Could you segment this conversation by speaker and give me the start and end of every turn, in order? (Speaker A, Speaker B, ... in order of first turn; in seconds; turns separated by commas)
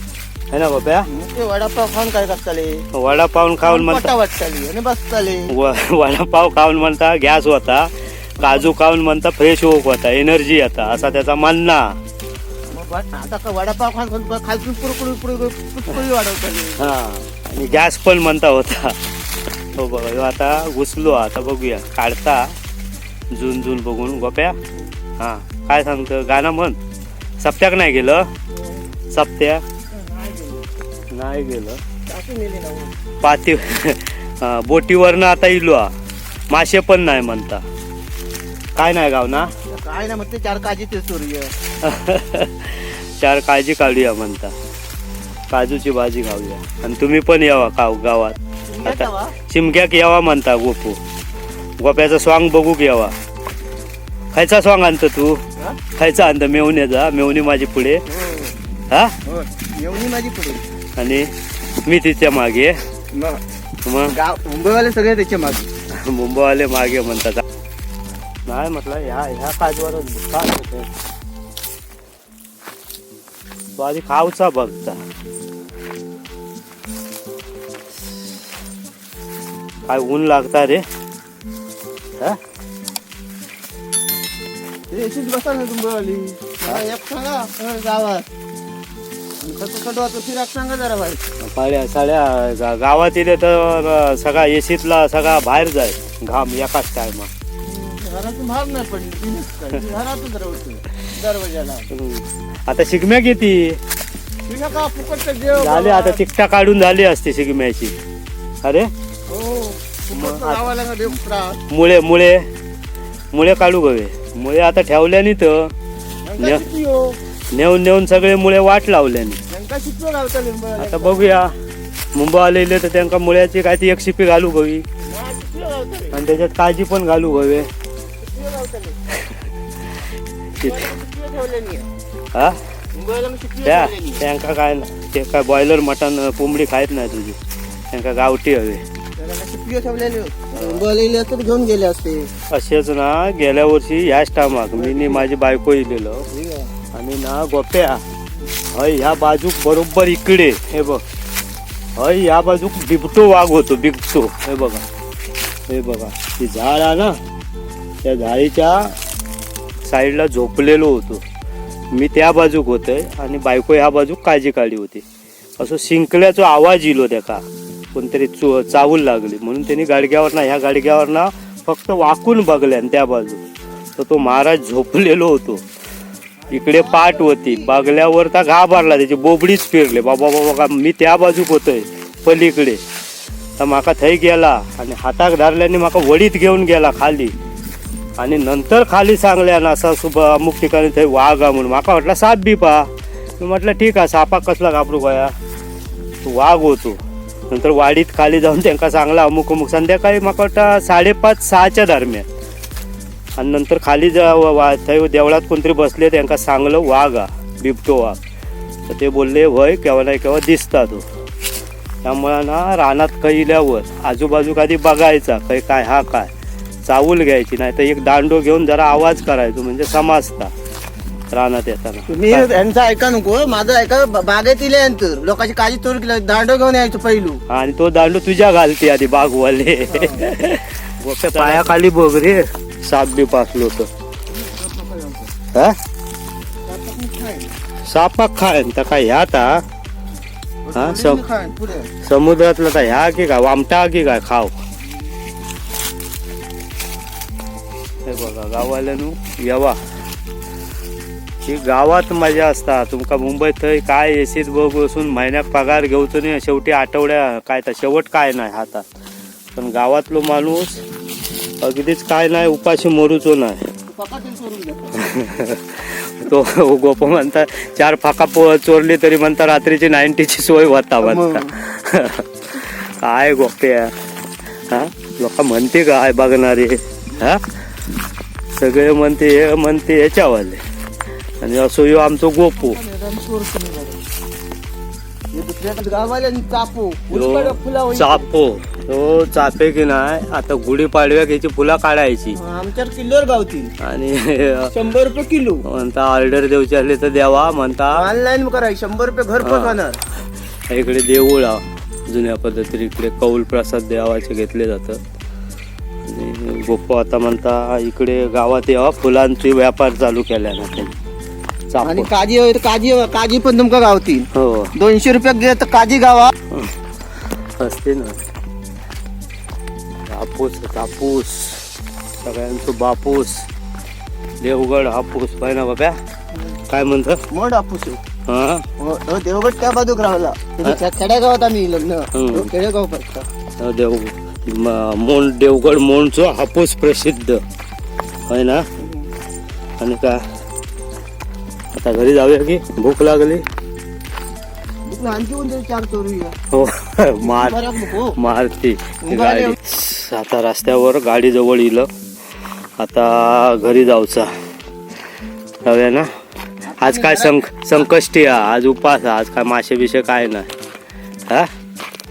Speaker A: 0.5-1.1, Speaker B: 1.1-2.8, Speaker A: 2.9-4.1, Speaker B: 3.6-5.5, Speaker A: 5.5-11.9, Speaker B: 12.7-16.9, Speaker A: 16.8-19.0, Speaker A: 19.8-22.5, Speaker A: 23.3-24.6, Speaker A: 25.2-26.8, Speaker A: 27.4-28.3, Speaker B: 28.5-28.9, Speaker A: 29.1-29.6, Speaker B: 29.9-30.7, Speaker A: 31.1-31.8, Speaker B: 32.0-32.9, Speaker A: 33.2-35.9, Speaker A: 36.5-37.6, Speaker A: 38.8-39.5, Speaker B: 39.7-41.5, Speaker A: 41.8-44.5, Speaker A: 45.5-51.0, Speaker B: 48.7-49.3, Speaker A: 51.8-53.1, Speaker A: 54.3-55.4, Speaker A: 55.9-58.1, Speaker B: 58.1-58.5, Speaker A: 58.9-59.2, Speaker B: 59.2-60.6, Speaker A: 61.0-61.3, Speaker A: 61.8-62.8, Speaker B: 63.1-63.4, Speaker A: 63.9-64.2, Speaker B: 64.1-65.7, Speaker A: 65.9-67.4, Speaker A: 68.5-70.9, Speaker A: 73.8-75.0, Speaker A: 79.9-80.8, Speaker B: 84.9-88.3, Speaker B: 89.4-91.2, Speaker A: 91.4-97.3, Speaker B: 97.6-101.9, Speaker A: 101.9-103.8, Speaker B: 104.5-106.2, Speaker A: 105.5-107.9, Speaker A: 108.6-108.9, Speaker B: 109.3-111.6, Speaker A: 110.1-110.7, Speaker A: 111.7-112.5, Speaker A: 113.3-115.7, Speaker B: 116.2-117.2, Speaker A: 117.5-119.4, Speaker B: 119.5-121.4, Speaker A: 120.8-121.5, Speaker A: 122.1-124.8, Speaker B: 125.0-126.2, Speaker A: 126.1-127.7, Speaker B: 128.2-129.0, Speaker B: 130.6-131.9, Speaker A: 130.6-130.9, Speaker B: 132.9-134.2, Speaker A: 133.6-137.4, Speaker A: 137.9-138.8, Speaker B: 139.2-142.3, Speaker A: 140.6-140.8, Speaker A: 142.5-146.3, Speaker B: 144.7-145.2, Speaker B: 146.3-146.7, Speaker A: 146.9-148.0, Speaker A: 148.7-151.0, Speaker A: 152.0-154.8, Speaker A: 155.7-157.2, Speaker A: 158.0-158.9, Speaker A: 159.8-161.2, Speaker A: 161.9-165.0, Speaker A: 165.6-173.4, Speaker A: 173.9-175.6, Speaker B: 176.4-178.0, Speaker A: 176.5-182.8, Speaker A: 183.6-187.3, Speaker A: 188.2-195.3, Speaker A: 196.2-202.2, Speaker A: 203.4-208.2, Speaker A: 208.9-211.0, Speaker A: 212.0-216.3, Speaker A: 216.8-220.5, Speaker A: 221.3-222.5, Speaker B: 222.1-227.4, Speaker A: 227.5-233.9, Speaker B: 229.9-230.3, Speaker B: 231.3-231.8, Speaker B: 234.3-235.3, Speaker B: 236.7-237.5, Speaker A: 237.9-239.6, Speaker B: 240.6-241.9, Speaker A: 240.7-241.2, Speaker A: 242.0-244.5, Speaker A: 248.0-249.8, Speaker A: 251.4-258.8, Speaker A: 259.5-260.8, Speaker A: 261.6-263.7, Speaker B: 263.9-265.0, Speaker A: 264.9-273.9, Speaker B: 271.0-271.5, Speaker A: 274.7-277.4, Speaker A: 278.5-280.6, Speaker A: 281.4-282.8, Speaker B: 282.6-284.0, Speaker B: 285.3-288.3, Speaker A: 287.1-292.4, Speaker B: 292.3-293.7, Speaker A: 293.8-294.7, Speaker B: 294.7-295.6, Speaker A: 295.6-298.1, Speaker B: 297.9-300.0, Speaker A: 299.4-299.8, Speaker A: 300.7-305.0, Speaker A: 306.0-310.9, Speaker A: 311.7-312.1, Speaker B: 311.8-316.3, Speaker A: 314.3-314.7, Speaker A: 317.6-318.2, Speaker A: 320.1-321.7, Speaker A: 322.2-323.5, Speaker A: 324.4-326.0, Speaker A: 326.7-327.2, Speaker B: 327.3-328.0, Speaker A: 328.2-328.6, Speaker B: 328.8-333.3, Speaker A: 332.1-332.5, Speaker A: 333.6-337.4, Speaker A: 338.3-338.6, Speaker B: 338.8-339.1, Speaker A: 339.8-340.2, Speaker A: 341.7-343.4, Speaker B: 344.9-346.4, Speaker A: 346.5-351.9, Speaker B: 347.2-348.2, Speaker B: 349.0-349.6, Speaker A: 352.8-354.3, Speaker A: 355.6-356.1, Speaker B: 356.7-357.4, Speaker A: 356.8-360.5